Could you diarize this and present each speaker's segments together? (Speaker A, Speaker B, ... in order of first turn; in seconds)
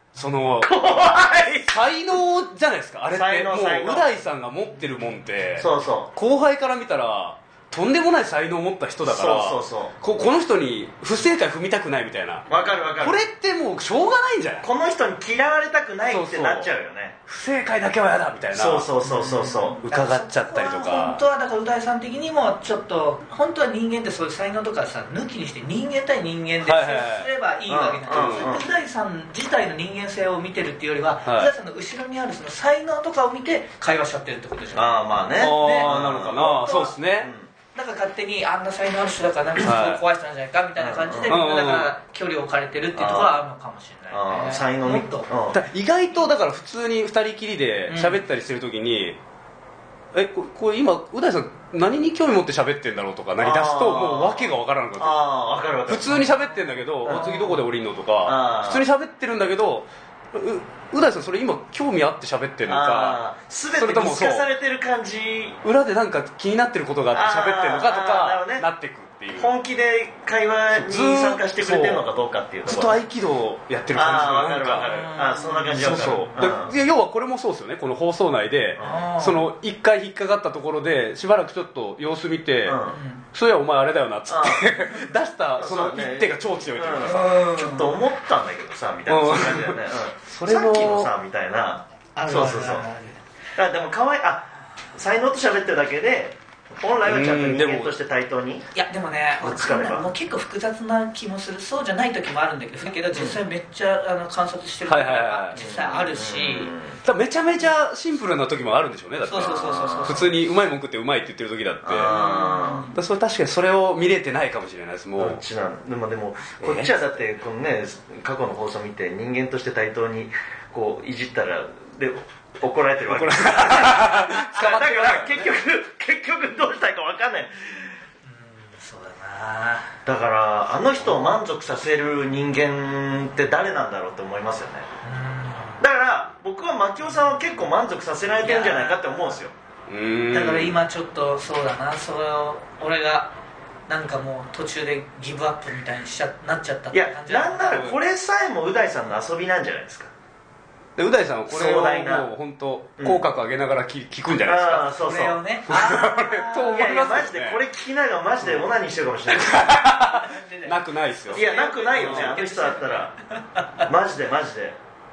Speaker A: 0.1-0.7, 1.7-12.4, 13.0-14.7, 16.1-16.7, 17.3-18.9, 19.8-21.2, 26.6-27.3, 28.1-28.6, 31.2-31.5, 35.4-37.3, 39.6-40.0, 41.3-41.9, 45.5-49.2, 50.1-55.2, 55.9-63.2, 63.8-64.5, 65.6-69.5, 70.7-72.0, 72.6-74.9, 75.8-82.8, 83.3-87.4, 89.1-91.1, 97.0-97.9, 104.9-105.6, 107.0-112.1, 112.9-115.4, 123.1-124.7, 139.9-140.8, 147.7-147.9, 151.0-154.9, 155.7-157.6, 158.4-158.7, 159.3-162.3
Speaker B: 0.6-1.8, 3.1-4.0, 5.6-6.1, 9.0-9.9, 12.5-13.2, 14.6-17.1, 18.5-19.8, 27.7-28.7, 34.7-37.5, 40.8-41.4, 42.9-43.4, 44.1-45.6, 53.4-56.2, 57.1-57.5, 58.2-58.9, 62.6-65.6, 67.1-68.7, 69.3-73.0, 73.9-76.7, 78.8-79.0, 82.6-83.0, 84.3-84.8, 85.6-92.8, 93.5-98.7, 99.4-100.1, 103.1-103.4, 105.5-107.0, 111.8-112.9, 115.2-127.9, 130.1-134.9, 135.8-139.5, 146.9-150.1, 151.5-152.3, 154.4-155.4, 156.7-159.8, 161.3-163.1, 163.8-164.8
Speaker C: 12.5-12.8, 19.0-36.9, 37.7-45.3, 47.9-48.2, 57.0-57.5, 74.8-76.3, 78.8-79.5, 82.9-83.2, 87.0-88.0, 92.2-93.2, 98.7-106.7, 109.2-110.3, 112.1-113.0, 124.1-125.4, 128.2-130.0, 135.0-135.8, 138.4-139.2, 140.3-143.3, 143.9-147.9, 154.9-157.2, 160.0-163.8